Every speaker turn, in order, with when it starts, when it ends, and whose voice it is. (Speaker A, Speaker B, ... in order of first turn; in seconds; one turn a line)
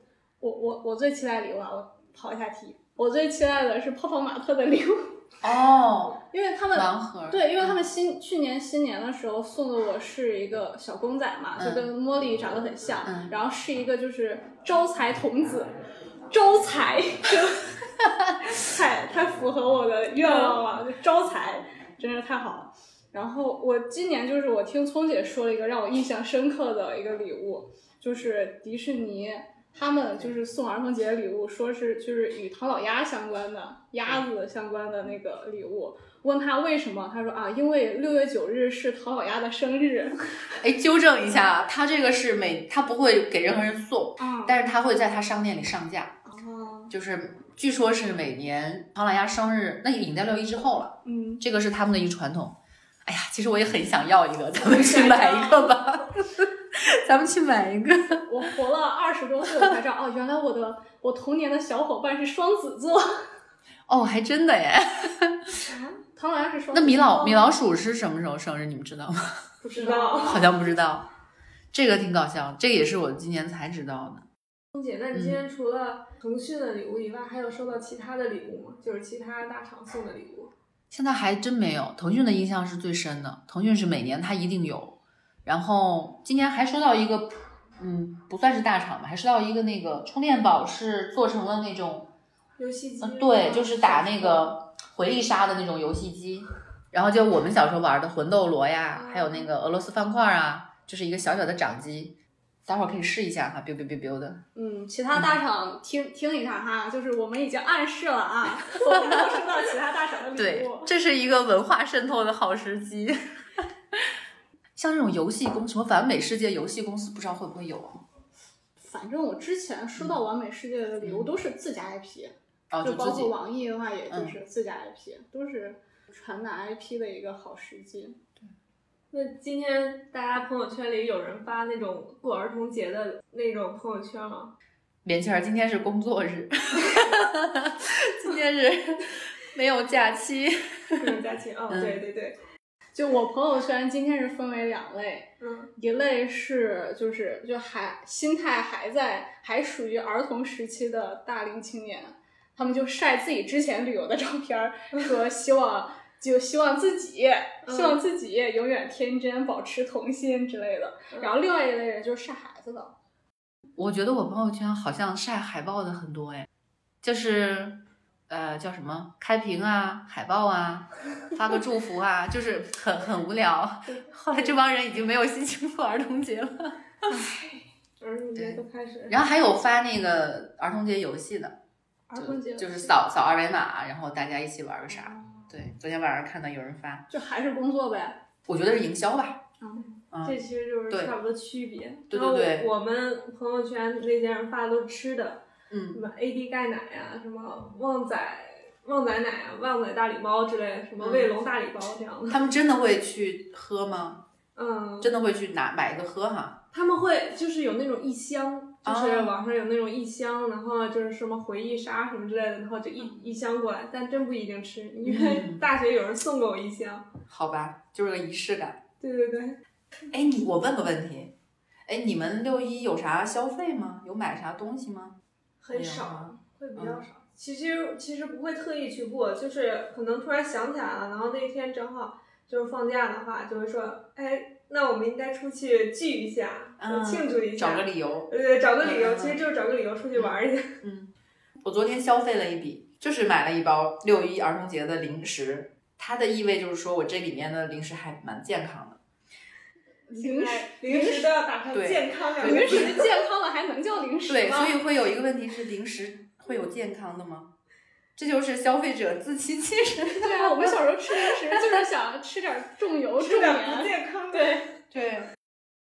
Speaker A: 0.4-5.1
Speaker B: 5.4-6.2
Speaker A: 6.3-15.7
Speaker B: 6.7-7.8
Speaker B: 11.6-11.9
Speaker B: 13.0-13.3
Speaker A: 16.3-17.7
Speaker A: 18.4-40.2
Speaker C: 20.2-20.6
Speaker B: 40.6-46.2
Speaker A: 44.2-44.6
Speaker A: 46.2-46.9
Speaker B: 46.9-58.3
Speaker A: 51.0-51.4
Speaker C: 54.6-55.8
Speaker A: 58.2-63.2
Speaker B: 63.9-65.5
Speaker C: 65.7-66.0
Speaker A: 66.1-67.4
Speaker B: 66.7-69.4
Speaker C: 69.6-70.4
Speaker A: 69.7-70.5
Speaker B: 70.2-71.1
Speaker B: 71.7-74.2
Speaker C: 74.7-80.5
Speaker B: 75.1-75.4
Speaker B: 80.9-92.1
Speaker C: 92.6-94.5
Speaker B: 93.0-102.2
Speaker C: 98.9-99.5
Speaker B: 102.7-104.4
Speaker A: 104.5-110.9
Speaker B: 108.9-109.4
Speaker B: 110.3-114.1
Speaker B: 114.8-118.0
Speaker A: 118.8-128.2
Speaker B: 121.0-121.3
Speaker B: 122.7-123.3
Speaker B: 124.1-124.3
Speaker C: 129.1-134.5
Speaker B: 135.0-141.2
Speaker C: 141.0-142.4
Speaker B: 141.7-142.0
Speaker A: 142.9-162.9
Speaker C: 145.4-145.7
Speaker C: 157.6-158.0
Speaker B: 163.8-166.5
Speaker B: 167.0-176.8
Speaker C: 174.0-174.5
Speaker A: 177.1-177.5
Speaker C: 178.0-179.2
Speaker B: 178.3-181.6
Speaker A: 182.1-182.9
Speaker B: 182.1-187.1
Speaker A: 187.1-188.2
Speaker B: 188.5-189.4
Speaker A: 189.6-189.9
Speaker B: 190.1-190.4
Speaker C: 190.1-202.4
Speaker B: 190.9-191.2
Speaker B: 192.1-192.7
Speaker B: 195.7-196.0
Speaker B: 201.0-201.3
Speaker B: 202.3-204.2
Speaker C: 204.6-205.1
Speaker B: 205.0-206.6
Speaker C: 206.7-217.1
Speaker B: 208.8-209.3
Speaker B: 215.0-215.7
Speaker B: 217.3-218.8
Speaker C: 219.0-219.6
Speaker B: 220.1-221.3
Speaker B: 221.9-225.2
Speaker C: 225.6-240.8
Speaker B: 225.7-227.0
Speaker B: 236.8-238.3
Speaker B: 238.8-239.4
Speaker B: 240.1-241.1
Speaker B: 241.6-249.0
Speaker A: 250.1-251.3
Speaker C: 250.1-253.2
Speaker B: 251.7-253.0
Speaker A: 252.4-254.8
Speaker B: 254.3-257.5
Speaker B: 258.1-260.7
Speaker A: 260.2-264.6
Speaker C: 263.2-264.7
Speaker B: 264.9-265.3